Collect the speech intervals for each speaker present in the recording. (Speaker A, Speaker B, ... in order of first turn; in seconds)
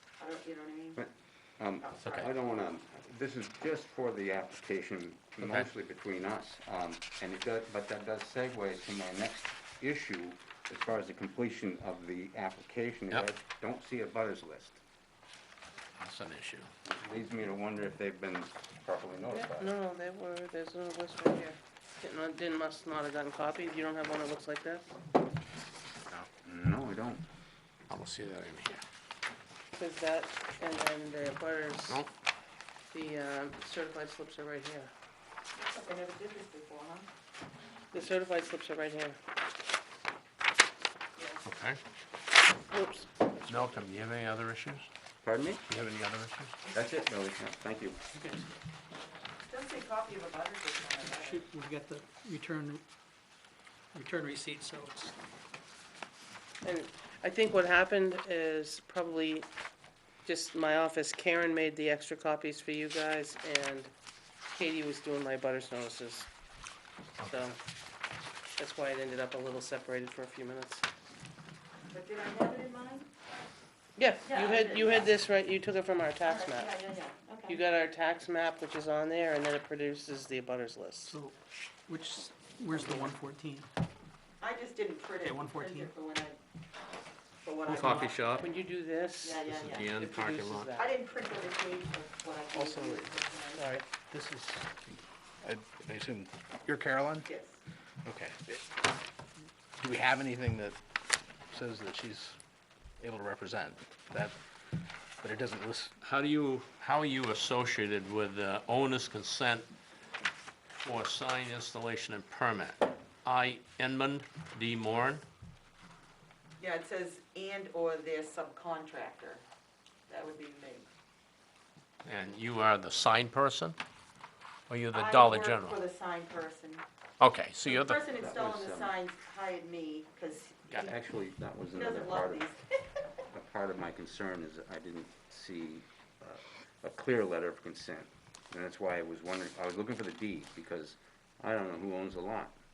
Speaker A: 0.2-1.0, 1.8-2.3, 35.5-37.1, 49.5-51.4, 71.9-73.0, 74.2-75.1, 76.2-77.6, 84.4-86.4, 87.4-88.5, 89.2-89.9, 90.7-93.8, 97.2-97.6, 116.6-119.4, 120.1-120.9, 124.9-126.8, 127.7-130.9, 131.7-132.6
Speaker B: 0.9-14.8, 16.8-19.8, 26.4-27.2, 45.2-45.6, 46.7-48.0, 128.0-128.9, 130.7-132.4, 133.3-142.6
Speaker C: 5.4-5.7, 16.0-16.7, 27.9-28.8, 41.4-41.8, 43.5-44.9, 45.7-46.6, 87.7-88.5, 89.4-90.7, 106.0-109.7, 110.8-115.2, 122.0-123.8, 124.7-125.8, 127.2-128.0
Speaker D: 19.3-24.9, 29.8-32.0, 32.9-34.9, 37.9-39.2, 42.7-43.7, 56.6-59.5, 60.2-63.9, 64.5-66.3, 67.3-67.6, 68.6-70.8, 74.0-76.8, 77.5-81.1, 87.9-90.9, 93.5-93.8
Speaker E: 48.1-48.5, 51.1-52.8, 53.9-55.1, 81.0-81.3, 81.9-83.7, 85.2-85.9
Speaker F: 92.5-93.1, 94.1-97.3, 98.0-98.7, 99.8-100.8, 101.5-102.4, 103.0-104.4, 105.2-105.9